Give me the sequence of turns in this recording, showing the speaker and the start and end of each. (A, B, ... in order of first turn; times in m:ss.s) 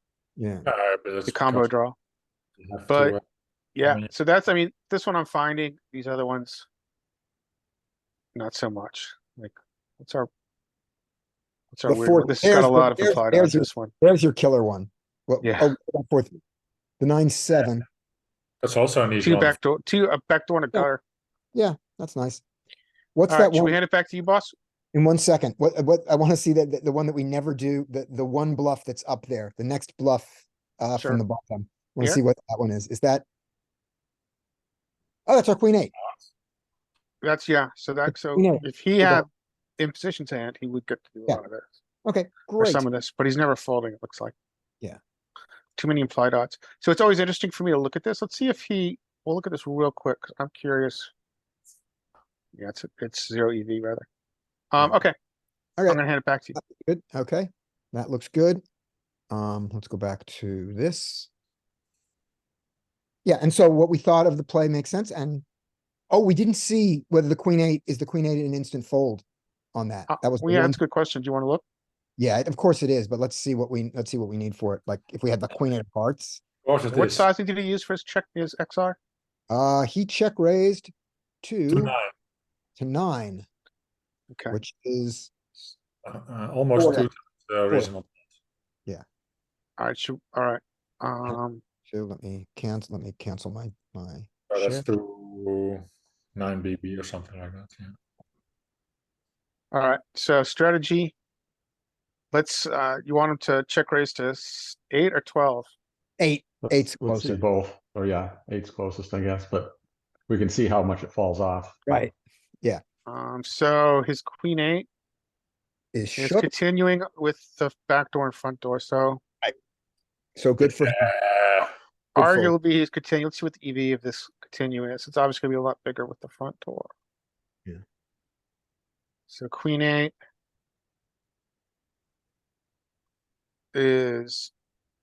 0:00.4-0:00.6 A
0:00.6-0:01.7 B
0:01.3-0:02.0 C
0:02.7-0:03.0 D
0:02.9-0:03.2 C
0:03.7-0:06.7 C
0:03.8-0:04.1 B
0:08.3-0:10.3 C
0:11.7-0:13.9 C
0:11.9-0:16.4 A
0:15.4-0:15.7 C
0:17.0-0:17.8 A
0:18.6-0:19.5 B
0:19.2-0:21.0 C
0:21.5-0:22.4 A
0:23.2-0:23.8 A
0:23.3-0:24.5 C
0:24.9-0:33.2 A
0:31.0-0:31.2 C
0:35.3-0:35.9 A
0:37.2-0:39.3 C
0:38.1-0:39.2 A
0:39.8-0:41.7 C
0:42.0-0:42.9 A
0:42.6-0:44.3 C
0:45.8-0:51.1 C
0:52.5-0:54.0 C
0:54.7-0:55.1 C
0:55.9-0:56.6 C
0:56.6-0:58.6 A
0:59.3-1:01.3 A
1:03.2-1:05.4 A
1:06.1-1:09.2 A
1:09.7-1:10.8 A
1:10.1-1:11.6 C
1:12.2-1:16.4 A
1:16.6-1:17.3 B
1:16.9-1:19.0 C
1:19.5-1:20.9 A
1:21.4-1:21.9 A
1:21.7-1:22.1 B
1:22.8-1:23.4 A
1:24.3-1:24.6 C
1:24.5-1:25.3 A
1:26.0-1:28.1 B
1:26.7-1:27.1 A
1:29.8-1:31.6 C
1:31.3-1:34.8 A
1:34.5-1:37.9 B
1:39.7-1:41.1 C
1:42.3-1:45.7 C
1:46.2-1:47.4 A
1:46.6-1:49.7 D
1:50.3-1:51.8 D
1:53.0-1:54.9 C
1:55.9-1:56.5 A
1:56.2-1:59.2 C
2:00.4-2:01.1 A
2:00.6-2:01.7 B
2:02.1-2:02.5 A
2:02.2-2:06.9 C
2:09.3-2:10.1 C
2:13.7-2:14.5 C